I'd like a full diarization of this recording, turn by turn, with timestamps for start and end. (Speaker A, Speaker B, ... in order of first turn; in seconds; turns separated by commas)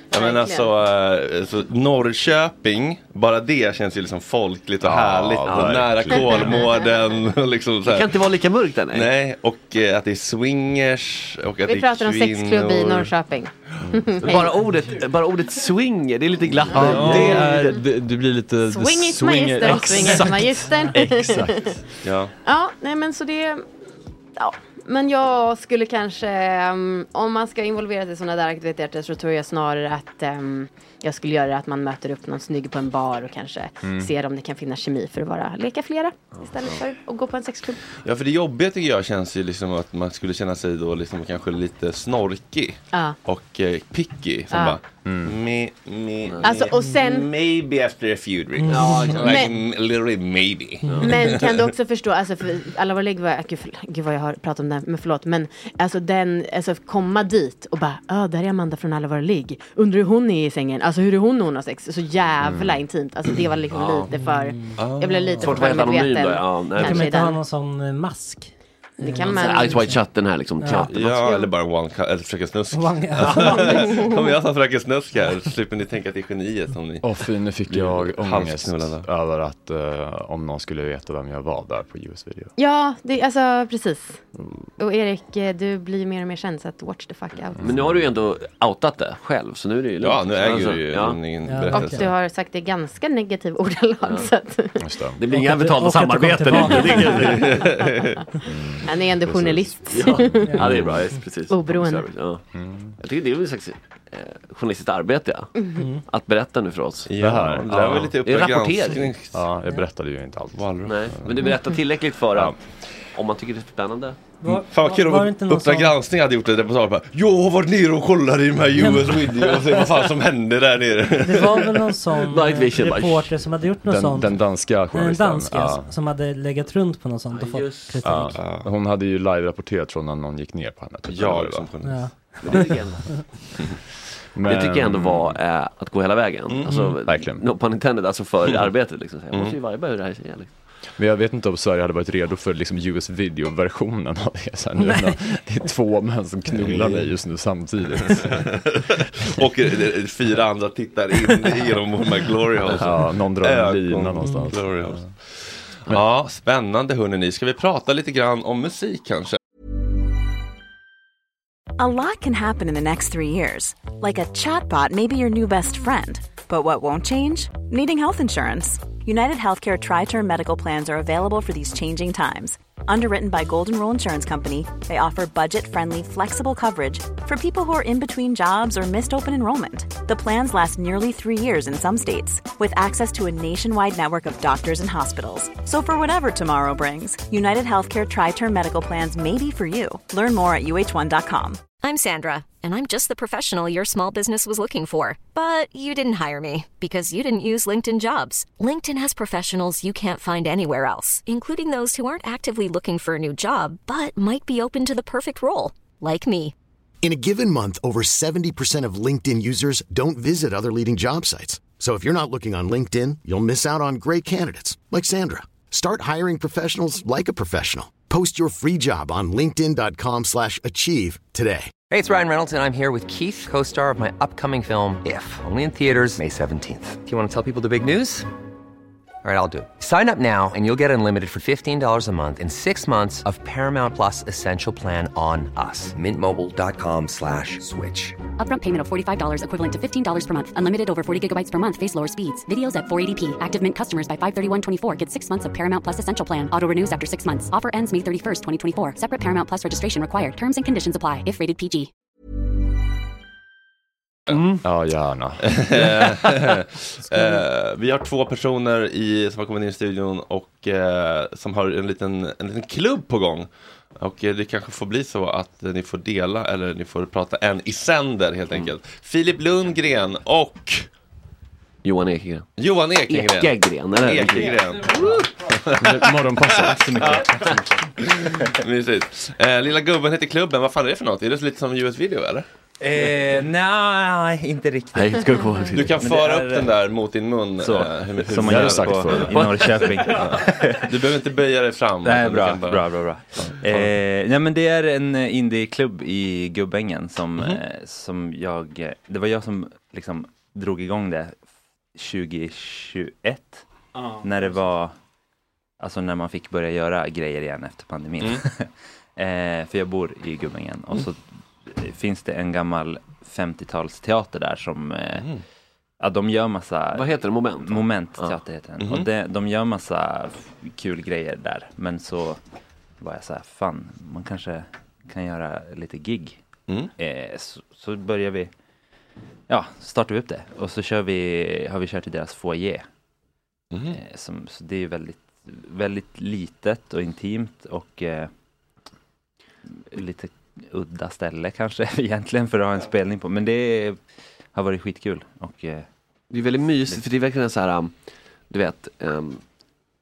Speaker A: 0.1-0.7, Speaker B: 0.1-8.2, Speaker C: 4.8-6.6, Speaker D: 5.4-5.8, Speaker A: 6.1-6.9, Speaker D: 7.9-9.1, Speaker B: 8.9-13.1, Speaker A: 11.6-14.5, Speaker D: 14.2-17.8, Speaker B: 16.7-17.5, Speaker C: 16.7-21.8, Speaker A: 17.3-17.8, Speaker A: 18.7-21.8, Speaker E: 19.9-20.9, Speaker B: 22.0-22.3, Speaker A: 22.4-23.6, Speaker A: 24.4-37.8, Speaker C: 33.8-34.1, Speaker B: 38.0-51.6, Speaker A: 42.9-43.2, Speaker A: 44.5-44.8, Speaker C: 45.0-45.4, Speaker A: 46.4-47.3, Speaker E: 48.6-49.4, Speaker D: 48.7-49.4, Speaker A: 49.0-49.5, Speaker D: 50.9-51.1, Speaker A: 51.0-67.4, Speaker C: 62.4-62.8, Speaker D: 63.7-64.1, Speaker E: 64.1-65.7, Speaker B: 64.8-65.3, Speaker D: 65.4-67.2, Speaker E: 66.7-70.9, Speaker A: 69.0-69.9, Speaker D: 69.2-71.2, Speaker B: 70.9-79.1, Speaker A: 71.2-71.5, Speaker E: 72.7-74.1, Speaker D: 73.2-73.5, Speaker C: 77.0-82.5, Speaker A: 82.6-84.2, Speaker C: 84.4-84.7, Speaker A: 84.8-87.6, Speaker C: 87.6-88.0, Speaker D: 87.6-91.3, Speaker B: 90.0-92.0, Speaker E: 91.4-92.1, Speaker A: 91.7-94.8, Speaker C: 94.8-95.2, Speaker D: 95.2-97.6, Speaker E: 95.2-97.5, Speaker B: 97.3-98.1, Speaker C: 98.5-101.0, Speaker A: 98.8-100.5, Speaker D: 99.9-109.1, Speaker A: 101.5-102.0, Speaker C: 102.5-102.9, Speaker A: 105.6-105.8, Speaker E: 105.8-106.0, Speaker B: 107.1-109.4, Speaker C: 107.2-108.1, Speaker C: 109.3-111.8, Speaker B: 110.6-110.9, Speaker D: 110.8-114.2, Speaker E: 114.4-115.9, Speaker B: 114.4-121.8, Speaker E: 118.7-119.6, Speaker E: 121.2-128.4, Speaker D: 122.3-123.4, Speaker C: 123.8-125.9, Speaker D: 127.3-127.9, Speaker C: 128.0-131.7, Speaker B: 128.3-128.7, Speaker B: 131.1-132.9, Speaker E: 131.8-133.2, Speaker D: 132.4-133.3, Speaker C: 134.3-135.4, Speaker D: 134.4-140.5, Speaker B: 136.5-136.9, Speaker C: 137.0-137.4, Speaker B: 139.3-139.6, Speaker C: 141.0-148.6, Speaker B: 146.6-147.1, Speaker B: 148.1-148.4, Speaker B: 149.2-159.4, Speaker C: 152.8-155.0, Speaker E: 154.2-154.5, Speaker F: 161.8-191.7, Speaker G: 191.8-206.5, Speaker H: 207.0-221.7, Speaker I: 221.9-228.3, Speaker I: 229.2-238.2, Speaker J: 238.3-251.9, Speaker D: 254.3-254.6, Speaker C: 254.6-255.8, Speaker B: 255.6-270.9, Speaker D: 271.8-275.0, Speaker B: 272.6-282.4, Speaker C: 275.7-277.5, Speaker K: 282.8-286.7, Speaker D: 284.9-285.9, Speaker B: 285.7-293.9, Speaker K: 287.6-290.9, Speaker C: 288.4-289.4, Speaker K: 292.0-301.4, Speaker K: 301.9-304.9, Speaker K: 305.8-315.3, Speaker K: 316.0-322.4, Speaker D: 316.9-318.4, Speaker B: 318.8-319.1, Speaker K: 323.0-326.4, Speaker K: 327.0-328.5, Speaker K: 329.5-332.9, Speaker B: 333.7-334.0, Speaker K: 333.9-338.3, Speaker K: 339.9-344.0, Speaker K: 344.5-345.9, Speaker D: 346.3-347.9, Speaker D: 348.5-349.4